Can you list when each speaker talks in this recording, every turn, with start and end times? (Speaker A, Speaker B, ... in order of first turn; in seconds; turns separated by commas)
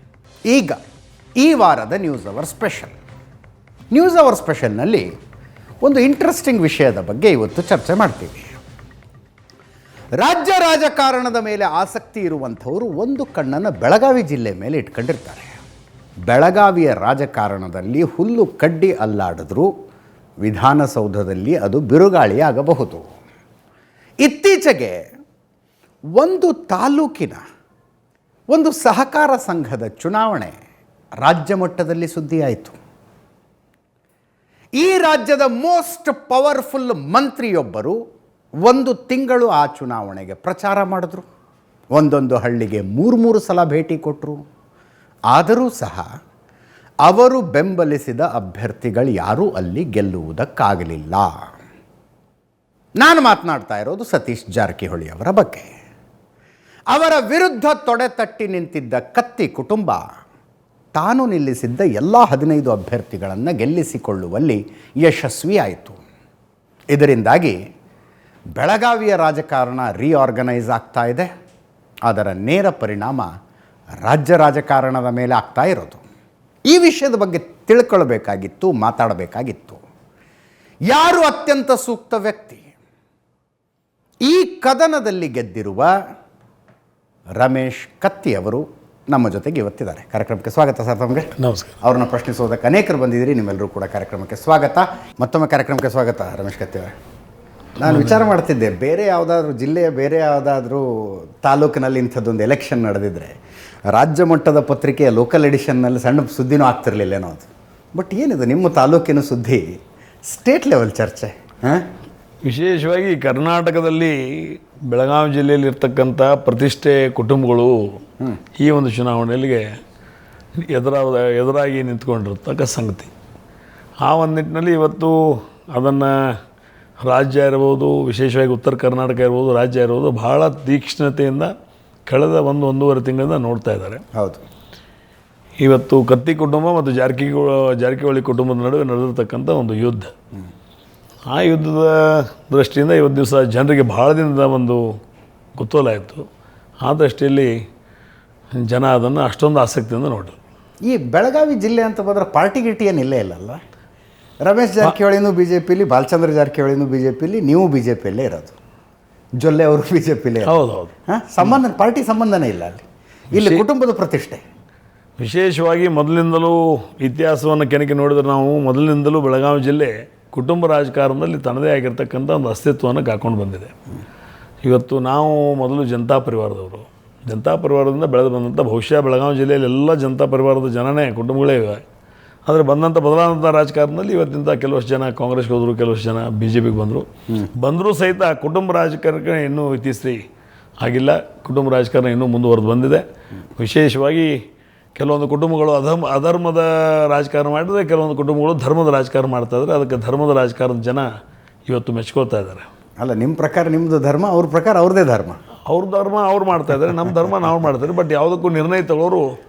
Speaker A: 0.5-0.8, Speaker A: 1.4-2.9, Speaker A: 3.9-5.1, Speaker A: 5.8-8.6, Speaker A: 10.2-15.5, Speaker A: 16.3-19.7, Speaker A: 20.4-23.0, Speaker A: 24.2-25.0, Speaker A: 26.2-27.4, Speaker A: 28.5-30.5, Speaker A: 31.2-32.8, Speaker A: 34.8-38.0, Speaker A: 38.6-41.2, Speaker A: 41.9-44.4, Speaker A: 45.3-46.0, Speaker A: 47.1-51.3, Speaker A: 53.0-55.7, Speaker A: 56.9-60.0, Speaker A: 61.0-66.0, Speaker A: 66.9-67.6, Speaker A: 68.6-71.3, Speaker A: 72.1-73.3, Speaker A: 74.0-76.0, Speaker A: 76.7-79.8, Speaker A: 80.9-82.7, Speaker A: 84.2-85.9, Speaker A: 87.4-96.9, Speaker B: 91.4-91.8, Speaker A: 97.8-103.3, Speaker B: 97.8-98.2, Speaker A: 103.9-109.6, Speaker A: 110.3-111.8, Speaker B: 112.5-118.0, Speaker B: 118.6-119.7, Speaker B: 120.7-123.1, Speaker B: 124.0-126.1, Speaker B: 127.0-131.5, Speaker B: 132.1-134.0, Speaker A: 134.1-134.4, Speaker B: 135.6-140.1, Speaker B: 141.3-144.8, Speaker B: 145.6-146.2, Speaker B: 146.8-147.5, Speaker B: 148.6-150.3, Speaker A: 150.8-153.6, Speaker A: 154.4-158.5, Speaker A: 159.4-160.5, Speaker B: 160.4-160.9, Speaker A: 161.1-164.4, Speaker B: 163.3-163.6, Speaker B: 165.2-173.7, Speaker B: 174.6-181.8, Speaker B: 182.4-190.2, Speaker B: 190.8-193.0, Speaker B: 193.6-194.3, Speaker B: 194.9-201.1, Speaker B: 201.7-202.7, Speaker A: 203.0-205.4, Speaker B: 205.7-209.3